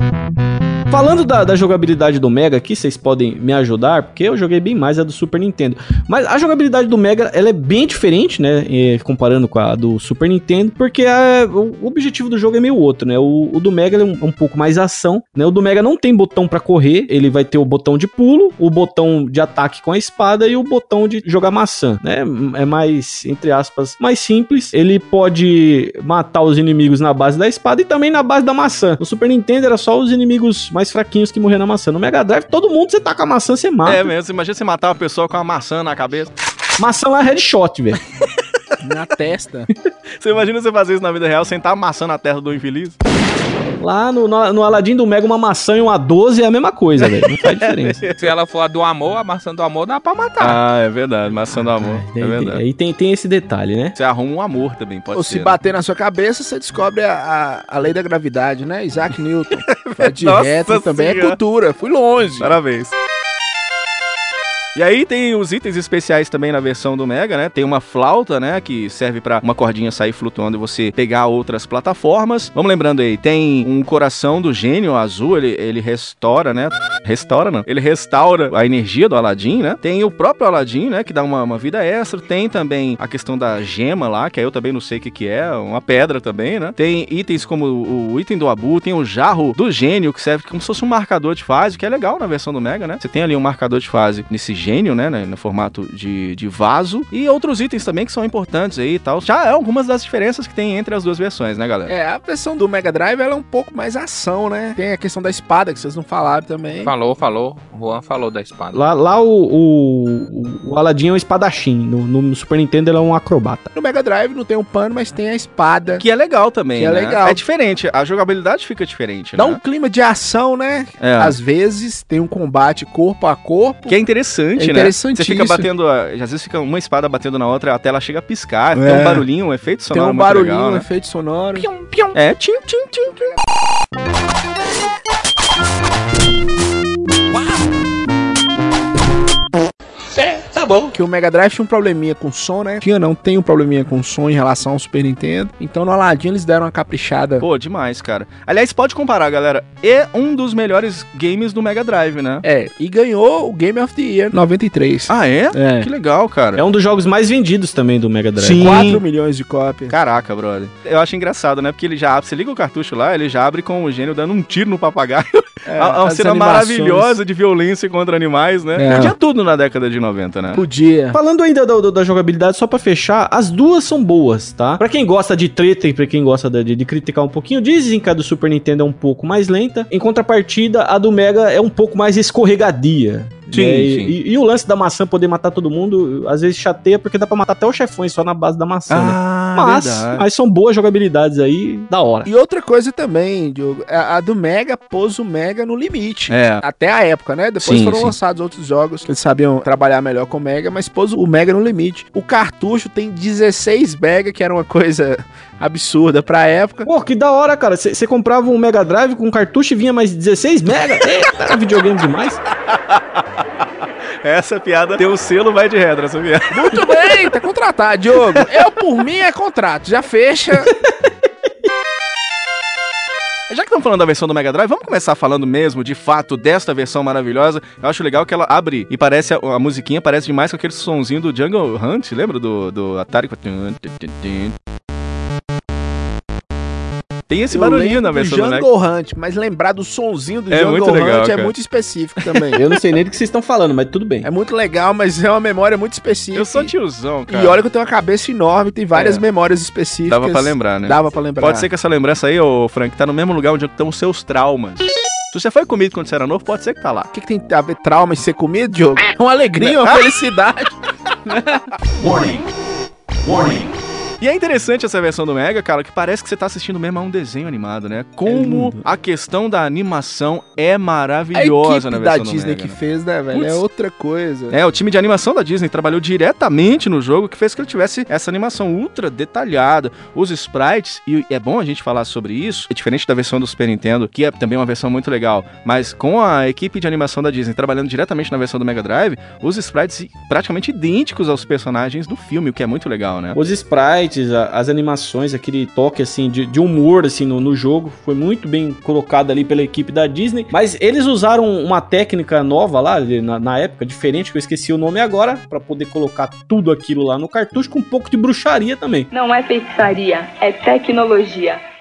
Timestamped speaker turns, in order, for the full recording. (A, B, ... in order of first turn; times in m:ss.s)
0:00.9-0:34.1 A
0:33.8-0:36.3 B
0:36.8-0:38.0 A
0:38.8-0:39.7 C
0:40.2-0:43.0 B
0:43.8-0:48.0 A
0:47.0-0:48.3 B
0:48.2-0:50.6 D
0:50.4-0:52.6 B
0:51.5-0:54.0 A
0:54.0-0:55.6 B
0:55.1-1:02.5 C
0:59.7-1:01.4 B
1:02.4-1:03.0 B
1:04.8-1:41.9 B
1:41.9-1:46.9 C
1:46.8-1:48.8 D
1:48.7-1:53.7 A
1:53.7-1:56.0 C
1:56.0-1:59.6 B
1:56.8-1:57.4 C
1:59.4-2:04.0 C
2:01.0-2:01.4 B
2:03.9-2:10.9 B
2:04.6-2:05.7 C
2:08.7-2:09.3 C
2:09.9-2:11.7 C
2:11.6-2:12.1 D
2:12.1-2:13.3 B
2:20.9-2:27.4 C
2:27.4-2:32.4 B
2:32.4-2:35.9 C
2:35.1-2:36.6 B
2:36.6-2:38.9 A
2:38.4-2:39.0 B
2:38.6-2:39.9 C
2:39.9-2:50.6 B
2:45.7-2:47.2 C
2:48.8-2:49.1 C
2:50.5-2:51.2 C
2:51.1-3:12.3 A
3:03.5-3:04.2 B
3:08.9-3:10.2 B
3:12.3-3:26.9 C
3:16.3-3:16.6 B
3:17.6-3:18.2 B
3:26.9-3:32.4 A
3:32.7-3:33.0 B
3:34.2-3:37.0 B
3:36.5-3:40.7 C
3:43.5-3:54.6 B
3:57.3-3:58.7 B
3:57.5-4:02.6 C
4:00.5-4:01.5 B
4:02.6-4:04.3 A
4:04.2-4:06.7 C
4:06.3-4:07.6 B
4:07.3-4:11.7 C
4:08.9-4:09.2 B
4:10.1-4:17.1 B
4:17.1-4:20.7 C
4:19.6-4:20.0 B
4:21.3-4:21.6 C
4:24.2-4:32.8 B
4:28.3-4:28.8 C
4:31.4-4:34.6 C
4:33.3-4:33.6 B
4:34.5-4:53.4 B
4:53.4-5:09.1 A
5:09.1-5:11.6 E